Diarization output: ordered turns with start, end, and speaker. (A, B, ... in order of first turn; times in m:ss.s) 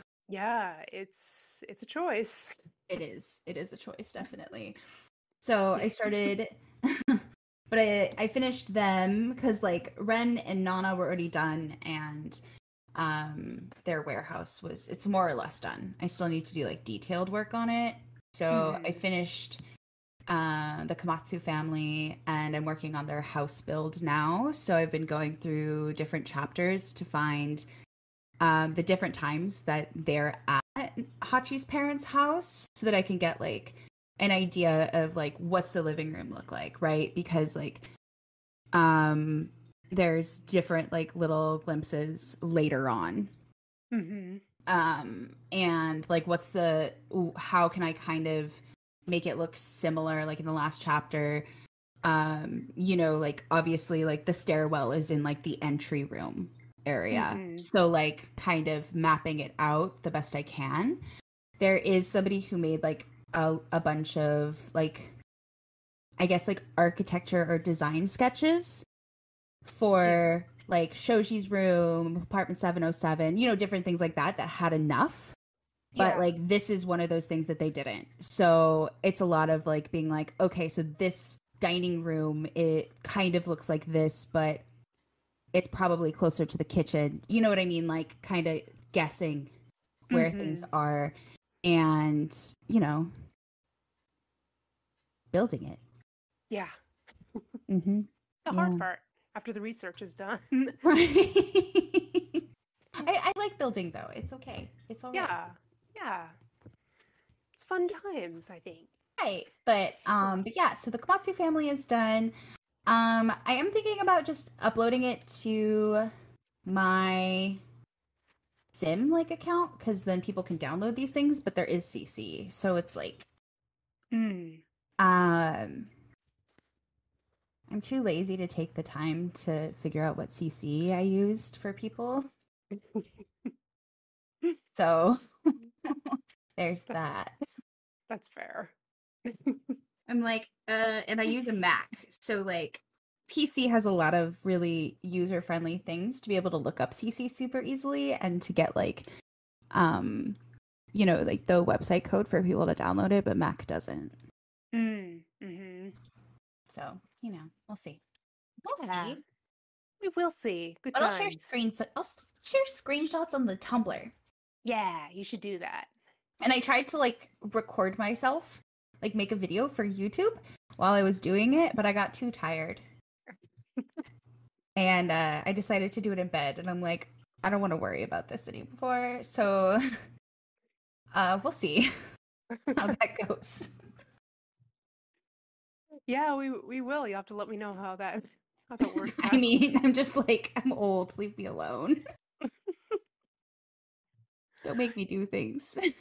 0:00.3-0:02.6 A
0:02.9-0:04.8 B
0:05.4-0:12.4 B
0:13.0-0:19.6 B
0:18.5-0:19.0 A
0:20.3-0:27.7 B
0:28.4-0:37.9 B
0:38.7-0:43.3 B
0:43.9-0:44.4 A
0:44.7-0:51.5 B
0:52.0-1:01.0 B
0:57.1-0:57.7 A
1:01.6-1:05.1 B
1:06.2-1:08.9 B
1:09.6-1:15.4 B
1:16.0-1:24.6 B
1:16.0-1:16.3 A
1:25.5-1:29.5 B
1:30.1-1:33.1 B
1:30.1-1:30.7 A
1:35.3-1:35.8 B
1:37.7-1:38.9 B
1:38.5-1:40.8 A
1:40.8-1:42.4 B
1:43.0-1:45.3 B
1:45.1-1:46.4 A
1:47.6-1:48.9 A
1:49.2-1:52.3 B
1:52.9-1:56.1 B
1:56.6-1:57.6 B
1:58.7-2:03.3 B
2:04.1-2:04.6 A
2:05.0-2:05.9 B
2:07.7-2:12.3 B
2:12.8-2:13.1 A
2:14.7-2:15.2 B
2:15.8-2:17.4 B
2:18.1-2:18.7 A
2:19.2-2:19.8 A
2:20.1-2:29.1 B
2:29.7-2:30.4 B
2:30.9-2:34.2 B
2:34.7-2:35.9 A
2:36.7-2:38.0 B
2:38.6-2:39.2 B
2:38.7-2:39.2 A
2:40.0-2:41.6 A
2:40.9-2:44.1 B
2:44.6-2:45.9 A
2:46.4-2:52.8 B
2:53.8-2:54.0 A
2:54.8-2:59.8 B
3:01.1-3:01.9 B
3:02.6-3:03.0 A
3:02.8-3:03.7 B
3:06.1-3:09.5 A
3:09.1-3:12.0 B
3:12.4-3:13.0 A
3:14.6-3:15.8 B